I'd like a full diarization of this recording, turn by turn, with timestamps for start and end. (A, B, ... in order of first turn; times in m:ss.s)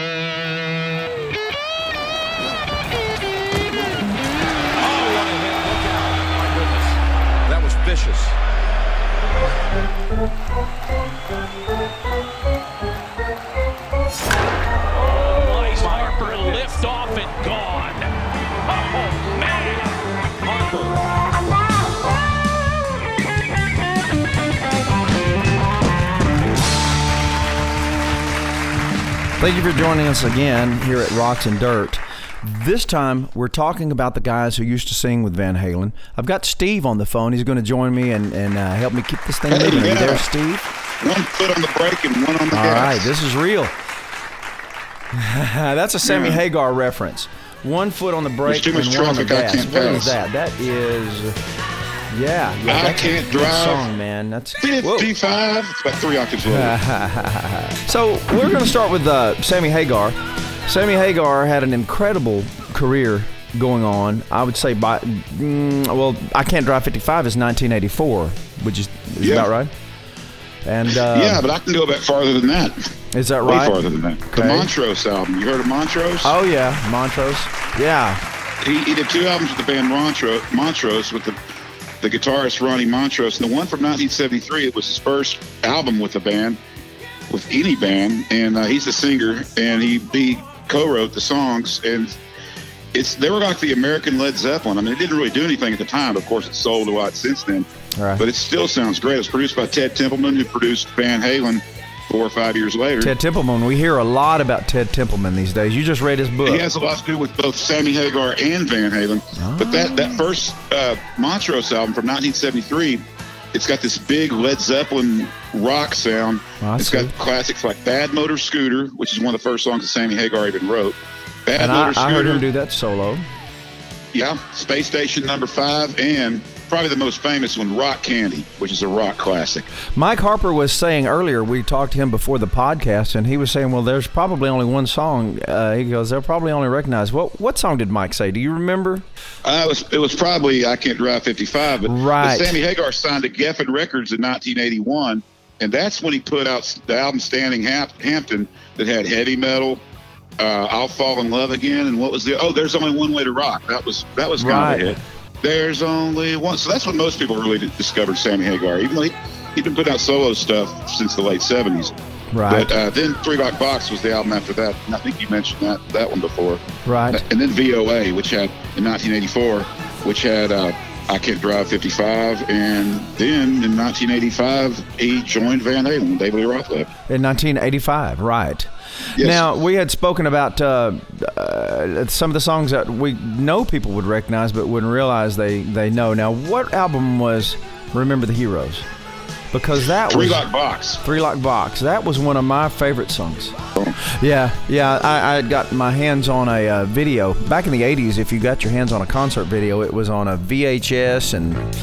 0:04.8-0:07.0 A
0:07.5-0:08.4 A
0:15.0-0:21.0 A
0:29.4-0:40.7 B
0:39.5-0:40.2 C
0:41.0-0:43.1 C
0:42.5-0:43.7 B
0:45.1-0:51.4 B
0:46.0-0:46.4 C
0:48.4-0:50.2 C
0:52.1-0:55.1 B
0:52.7-0:53.9 C
0:54.6-0:56.8 C
0:56.4-1:09.7 B
1:09.2-1:09.5 C
1:10.6-1:11.4 B
1:10.9-1:12.9 C
1:13.1-1:13.8 B
1:13.4-1:16.3 C
1:14.3-1:14.7 B
1:16.2-1:18.2 B
1:18.6-1:21.4 C
1:22.0-1:26.6 C
1:27.3-1:32.2 C
1:32.9-1:37.7 C
1:38.0-1:38.2 B
1:38.2-1:43.1 C
1:43.0-1:46.6 B
1:46.4-2:02.4 C
1:49.4-1:50.2 B
1:56.6-1:57.1 B
2:01.6-2:03.2 B
2:04.1-2:09.7 C
2:09.9-2:19.0 B
2:19.4-2:29.8 C
2:21.8-2:22.6 B
2:30.4-2:41.9 C
2:34.4-2:35.0 B
2:42.3-2:42.7 B
2:42.5-2:56.9 C
2:46.8-2:47.2 B
2:57.1-3:08.9 B
2:59.2-2:59.4 C
3:09.5-3:10.4 B
3:10.0-3:11.0 C
3:11.0-3:21.6 B